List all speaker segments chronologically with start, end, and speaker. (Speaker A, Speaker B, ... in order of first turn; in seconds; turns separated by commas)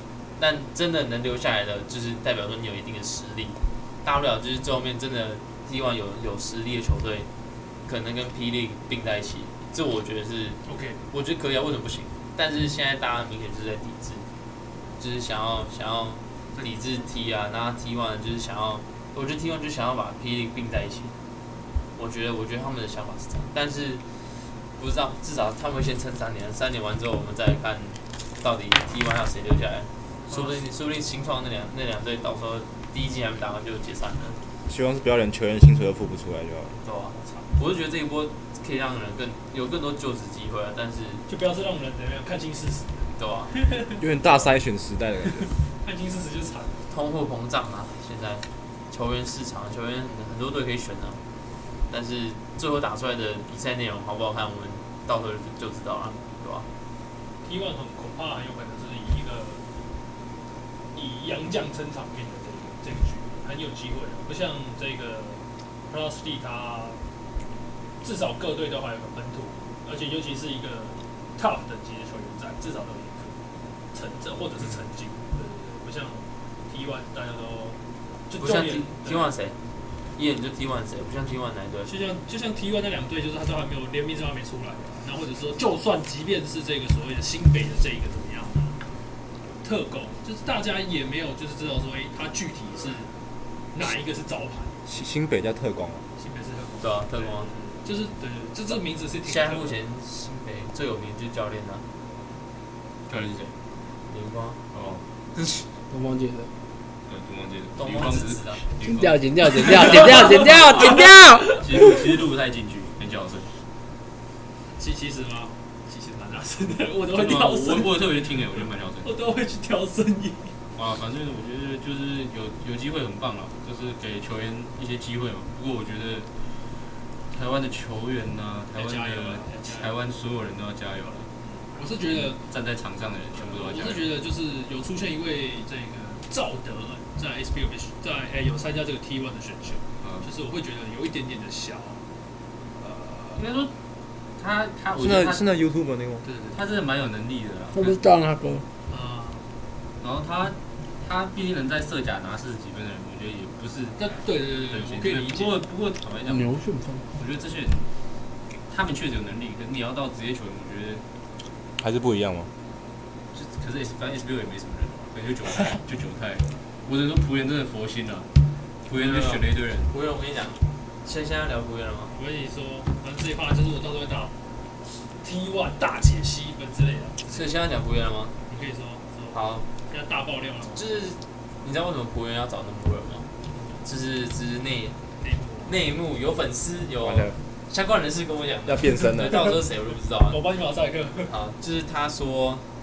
Speaker A: 0.4-7.3, Speaker A: 7.8-14.2, Speaker B: 10.6-11.0, Speaker A: 15.0-21.1, Speaker A: 21.9-24.0, Speaker A: 24.8-34.4, Speaker B: 30.3-30.6, Speaker C: 34.7-36.8, Speaker A: 36.8-41.2, Speaker B: 37.1-37.5, Speaker B: 41.2-43.9, Speaker A: 43.1-43.5, Speaker C: 44.0-45.5, Speaker B: 45.8-46.8, Speaker A: 46.9-51.2, Speaker A: 51.9-56.7, Speaker B: 57.4-59.6, Speaker B: 60.9-67.0, Speaker B: 68.0-73.4, Speaker B: 73.9-79.3, Speaker A: 78.4-79.6, Speaker A: 80.2-81.9, Speaker B: 81.8-88.8, Speaker B: 89.6-93.1, Speaker B: 93.7-94.8, Speaker C: 94.8-96.0, Speaker B: 96.2-99.7, Speaker A: 96.8-97.5, Speaker A: 99.2-101.8, Speaker D: 103.1-103.5, Speaker A: 104.1-104.6, Speaker D: 104.7-105.0, Speaker E: 105.9-106.5, Speaker D: 107.0-113.5, Speaker A: 107.8-108.7, Speaker E: 108.8-111.6, Speaker B: 114.8-117.9, Speaker D: 117.1-119.1, Speaker B: 119.0-120.5, Speaker D: 120.7-126.3, Speaker D: 127.3-131.3, Speaker B: 128.7-129.9, Speaker B: 131.4-132.4, Speaker D: 132.1-134.1, Speaker B: 133.3-142.0, Speaker D: 140.0-140.3, Speaker B: 142.8-143.6, Speaker D: 143.3-143.7, Speaker D: 144.4-145.4, Speaker C: 145.0-146.2, Speaker B: 146.2-146.6, Speaker D: 146.5-148.1, Speaker E: 147.9-148.6, Speaker B: 148.9-149.5, Speaker D: 150.0-157.9, Speaker B: 154.0-155.6, Speaker E: 156.5-157.0, Speaker D: 158.7-161.0, Speaker C: 161.8-162.5, Speaker D: 163.3-168.3, Speaker D: 168.8-169.9, Speaker A: 168.9-172.1, Speaker B: 172.1-174.3, Speaker B: 175.1-177.4, Speaker A: 177.2-178.4, Speaker B: 178.5-180.8, Speaker A: 179.3-179.7, Speaker A: 180.7-183.3, Speaker B: 183.5-183.8, Speaker A: 183.8-185.0, Speaker B: 185.2-185.8, Speaker A: 185.7-190.4, Speaker C: 187.0-187.4, Speaker C: 188.7-189.5, Speaker B: 190.2-191.3, Speaker A: 191.3-192.6